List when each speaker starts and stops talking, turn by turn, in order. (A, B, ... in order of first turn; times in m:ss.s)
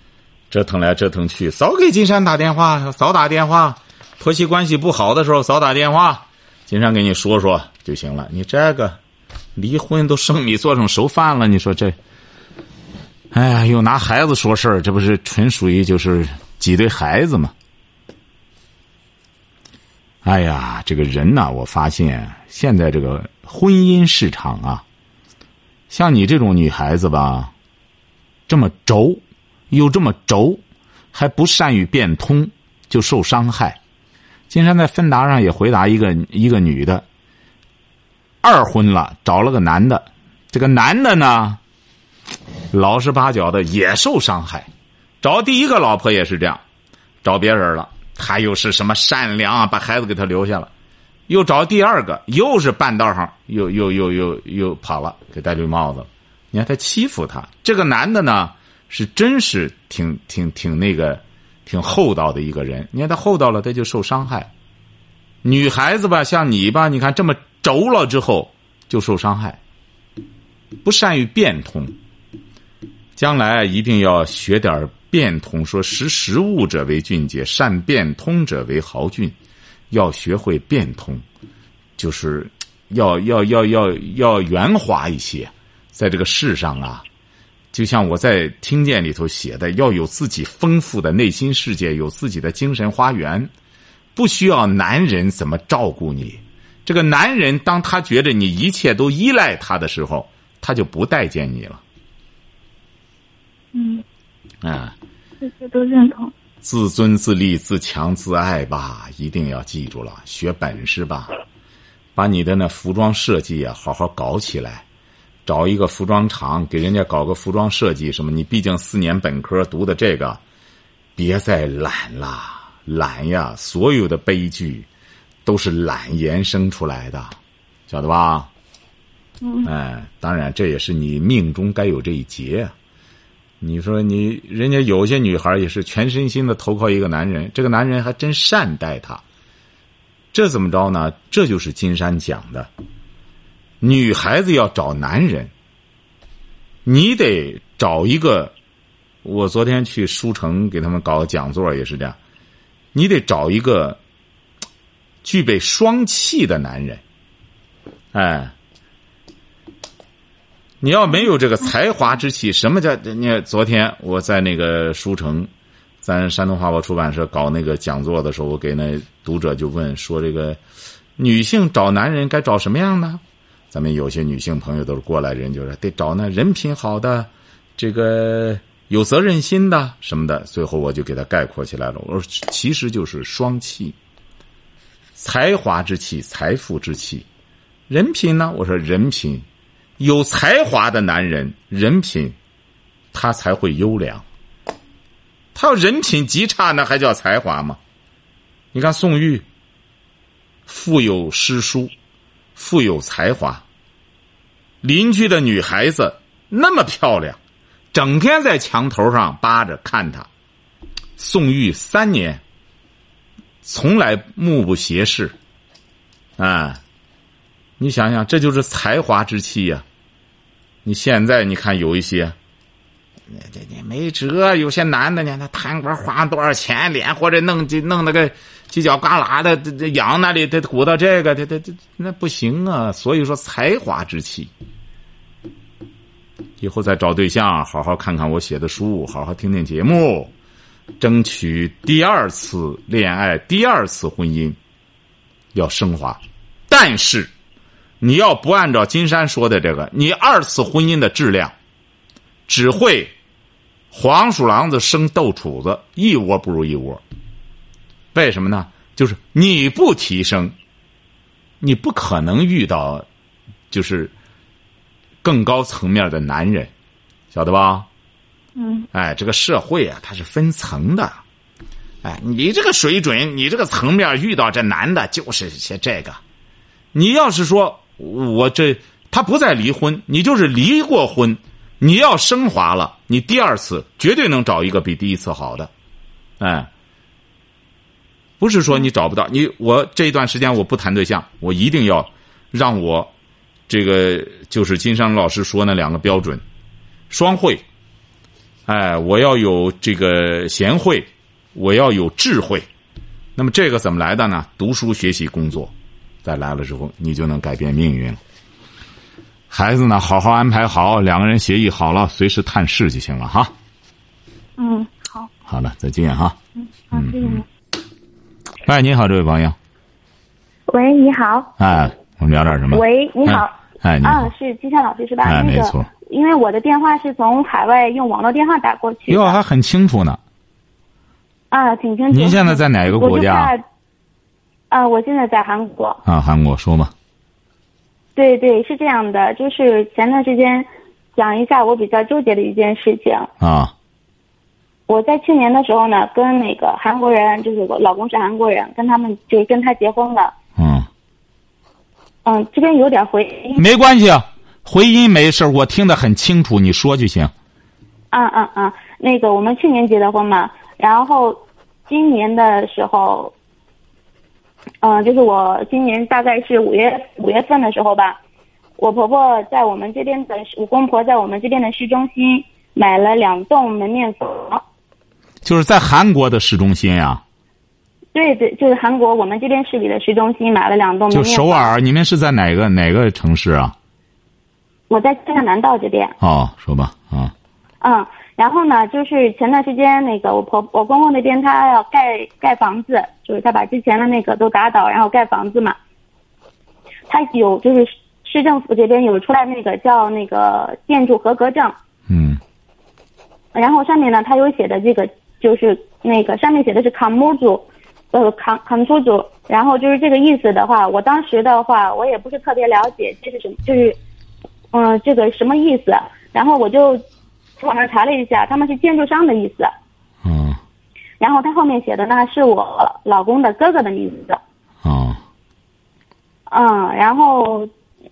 0:00.5-0:09.0 A
0:09.6-0:12.0 A
0:13.3-0:17.5 A
0:20.2-0:24.8 A
0:25.9-0:27.5 A
0:28.5-0:30.6 A
0:31.1-0:33.8 A
0:34.5-0:37.0 A
0:38.4-0:41.6 A
0:42.7-0:44.7 A
0:45.2-0:46.6 A
0:47.2-0:50.7 A
0:51.3-1:04.5 A
1:05.4-1:09.6 A
1:10.8-1:12.0 A
1:13.2-1:19.4 A
1:19.9-1:21.2 A
1:22.0-1:27.0 A
1:27.7-1:33.5 A
1:34.2-1:41.8 A
1:43.7-1:44.0 B
1:44.6-1:45.0 A
1:45.4-1:46.3 B
1:46.6-1:51.3 A
1:52.2-1:54.8 A
1:55.5-2:00.4 A
2:01.2-2:04.9 A
2:05.4-2:07.4 A
2:07.9-2:08.5 A
2:09.4-2:09.7 B
2:09.6-2:12.7 A
2:13.6-2:19.2 A
2:20.3-2:22.7 A
2:23.8-2:25.5 A
2:26.8-2:28.5 A
2:29.2-2:32.2 A
2:32.9-2:34.0 A
2:35.2-2:37.0 A
2:38.1-2:38.5 A
2:40.8-2:45.5 A
2:46.0-2:50.6 A
2:51.2-3:04.0 A
3:05.2-3:07.3 A
3:07.9-3:09.5 A
3:10.0-3:12.4 A
3:13.1-3:14.2 A
3:15.6-3:17.8 A
3:18.7-3:19.4 A
3:20.7-3:21.9 A
3:22.6-3:23.6 A
3:24.8-3:27.4 A
3:27.9-3:30.3 A
3:31.2-3:32.4 A
3:33.6-3:35.4 A
3:36.4-3:36.8 A
3:37.8-3:39.8 A
3:40.8-3:42.4 A
3:43.3-3:54.5 A
3:56.6-4:00.3 A
4:01.0-4:04.6 A
4:05.5-4:07.3 A
4:08.0-4:11.5 A
4:12.5-4:13.1 A
4:13.9-4:17.0 A
4:18.1-4:20.6 A
4:21.6-4:23.1 A
4:23.7-4:24.1 A
4:25.2-4:26.7 A
4:27.3-4:27.9 A
4:28.6-4:28.9 B
4:28.9-4:31.2 A
4:32.0-4:36.2 A
4:36.9-4:45.7 A
4:46.4-4:46.7 A
4:48.4-4:53.1 A
4:53.7-4:56.4 A
4:57.1-4:57.6 A
4:58.7-5:02.7 A
5:03.4-5:05.7 A
5:06.2-5:08.2 A
5:09.5-5:13.5 A
5:14.6-5:15.3 B
5:15.5-5:16.4 A
5:16.9-5:17.4 B
5:16.9-5:17.4 A
5:18.6-5:19.6 A
5:20.7-5:21.5 C
5:21.6-5:24.3 A
5:22.7-5:23.5 C
5:24.0-5:29.4 C
5:25.2-5:25.9 A
5:29.1-5:30.2 A
5:31.5-5:33.6 C
5:32.1-5:33.5 A
5:34.7-5:36.0 C
5:36.0-5:36.9 A
5:38.2-5:43.3 C
5:43.4-5:43.7 A
5:44.9-5:50.3 C
5:50.6-5:50.9 A
5:52.2-5:53.7 C
5:53.6-5:57.3 A
5:58.1-6:03.4 C
6:04.8-6:08.2 C
6:08.8-6:14.6 C
6:15.4-6:17.2 A
6:18.1-6:21.7 C
6:21.1-6:23.7 A
6:24.9-6:26.2 C
6:26.2-6:27.3 A
6:27.8-6:35.8 C
6:37.1-6:41.8 C
6:42.1-6:42.4 A
6:43.5-6:54.0 C
6:54.7-6:57.0 C
6:57.6-6:59.7 C
7:00.2-7:00.6 A
7:01.2-7:04.4 C
7:04.8-7:05.2 A
7:06.5-7:07.7 C